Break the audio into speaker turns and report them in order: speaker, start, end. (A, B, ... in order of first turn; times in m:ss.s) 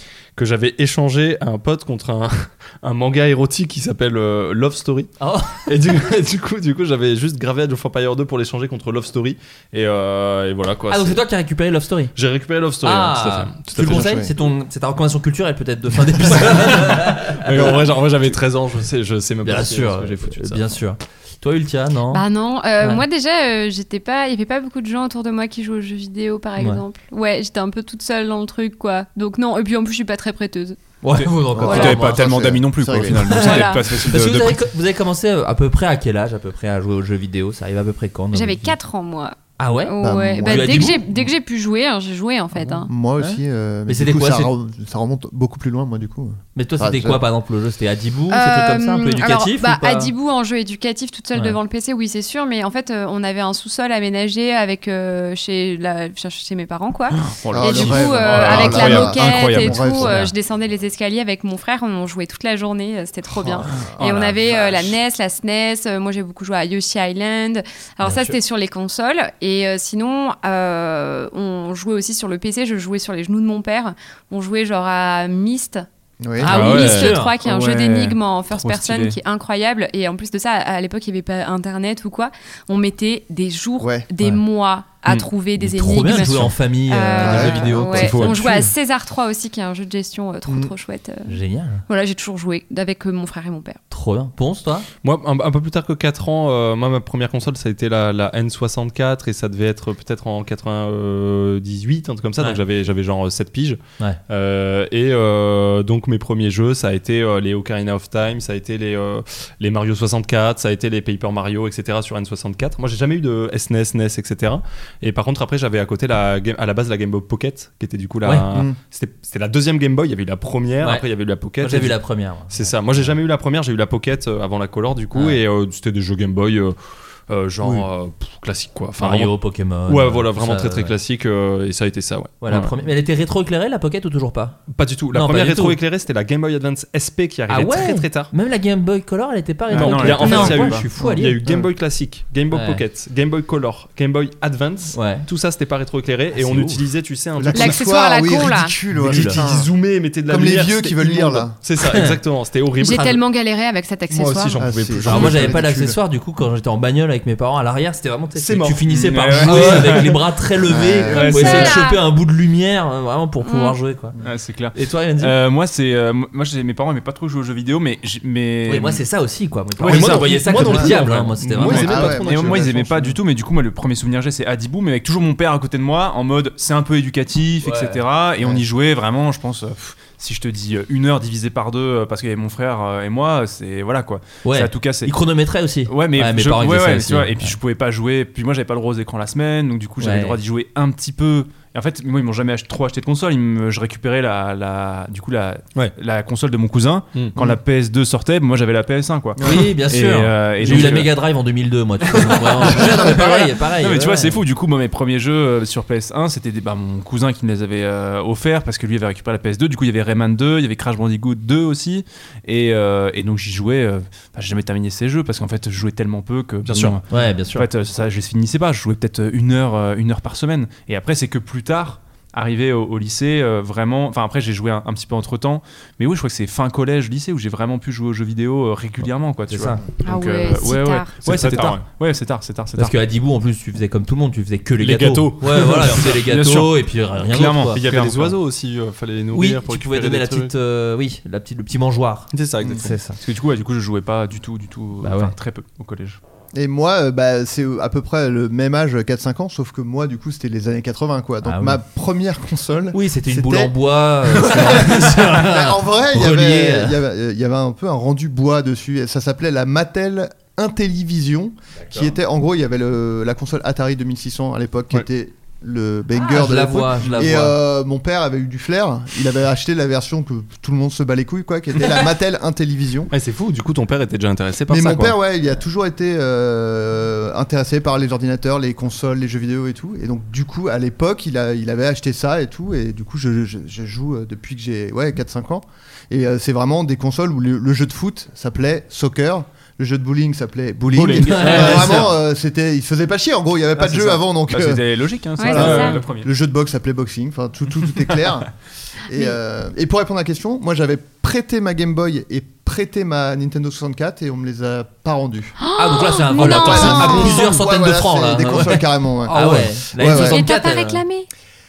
0:00.4-0:05.1 A
0:05.2-0:05.7 B
0:05.6-0:11.2 A
0:10.9-0:12.1 B
0:12.1-0:14.2 A
0:12.8-0:17.8 B
0:13.8-0:14.3 C
0:16.3-0:20.8 A
0:19.4-0:22.2 B
0:22.1-0:30.8 D
0:31.0-0:32.4 B
0:31.2-0:34.6 E
0:31.5-0:33.4 C
0:31.7-0:32.0 D
0:33.1-0:38.7 B
0:33.4-0:33.8 D
0:38.3-0:42.9 D
0:39.6-0:41.0 B
0:40.0-0:41.3 C
0:42.7-0:47.2 C
0:43.2-0:44.5 B
0:46.5-0:50.1 B
0:48.3-1:15.8 D
0:57.2-1:00.1 E
0:57.5-1:00.2 C
1:03.4-1:03.9 C
1:04.0-1:04.4 E
1:08.0-1:08.4 B
1:16.2-1:16.5 C
1:16.4-1:17.3 B
1:16.4-1:31.4 D
1:16.5-1:19.2 E
1:23.8-1:24.1 C
1:25.6-1:28.5 B
1:27.2-1:27.7 C
1:28.0-1:28.4 A
1:30.5-1:30.7 C
1:31.3-1:31.8 B
1:31.9-1:33.8 D
1:33.9-1:34.9 B
1:35.0-2:06.8 A
1:58.5-1:58.8 C
2:00.8-2:01.0 B
2:01.6-2:03.2 B
2:05.1-2:05.4 B
2:07.3-2:12.7 A
2:07.6-2:07.9 C
2:09.0-2:11.0 B
2:12.4-2:14.6 B
2:14.7-2:18.3 A
2:15.1-2:15.8 B
2:17.5-2:21.4 B
2:19.7-2:27.8 A
2:19.7-2:20.8 E
2:20.2-2:20.6 D
2:21.0-2:21.7 C
2:22.5-2:22.8 B
2:24.9-2:25.2 B
2:26.3-2:26.8 B
2:27.4-2:29.7 C
2:27.5-2:28.8 D
2:28.9-2:33.2 A
2:29.0-2:29.4 B
2:30.2-2:31.6 C
2:31.8-2:32.2 B
2:32.8-2:34.6 D
2:34.1-2:35.6 A
2:34.6-2:36.0 C
2:35.0-2:44.1 B
2:38.3-2:40.2 A
2:38.9-2:40.2 E
2:40.7-2:41.3 C
2:41.1-2:41.8 E
2:41.1-2:42.0 D
2:43.4-2:43.8 D
2:44.2-2:49.0 E
2:44.7-2:45.4 B
2:48.7-2:52.0 B
2:49.8-2:51.0 E
2:49.8-2:52.8 A
2:51.6-3:05.1 E
2:51.6-2:53.2 C
2:57.6-2:58.0 B
3:04.4-3:07.6 B
3:05.9-3:21.1 E
3:10.0-3:10.4 B
3:19.4-3:24.4 B
3:20.7-3:21.0 A
3:22.6-3:52.9 E
3:36.6-3:37.0 A
3:37.1-3:37.6 B
3:49.5-3:49.8 B
3:50.0-3:51.1 D
3:51.2-3:51.8 A
3:52.8-3:57.8 B
3:54.8-3:56.2 A
3:55.8-3:58.4 E
3:57.7-4:00.5 A
3:59.3-4:03.2 B
4:02.3-4:02.9 A
4:03.2-4:06.2 E
4:05.0-4:05.3 B
4:06.5-4:33.1 C
4:11.4-4:11.8 B
4:12.9-4:17.0 B
4:26.2-4:27.6 B
4:33.1-4:35.2 A
4:34.7-4:58.5 C
4:50.9-4:52.1 E
4:51.3-4:52.0 B
4:53.8-4:56.3 E
4:55.4-4:56.0 D
4:59.1-5:05.6 C
5:05.6-5:07.5 D
5:05.8-5:11.0 B
5:06.4-5:10.4 C
5:10.0-5:11.3 D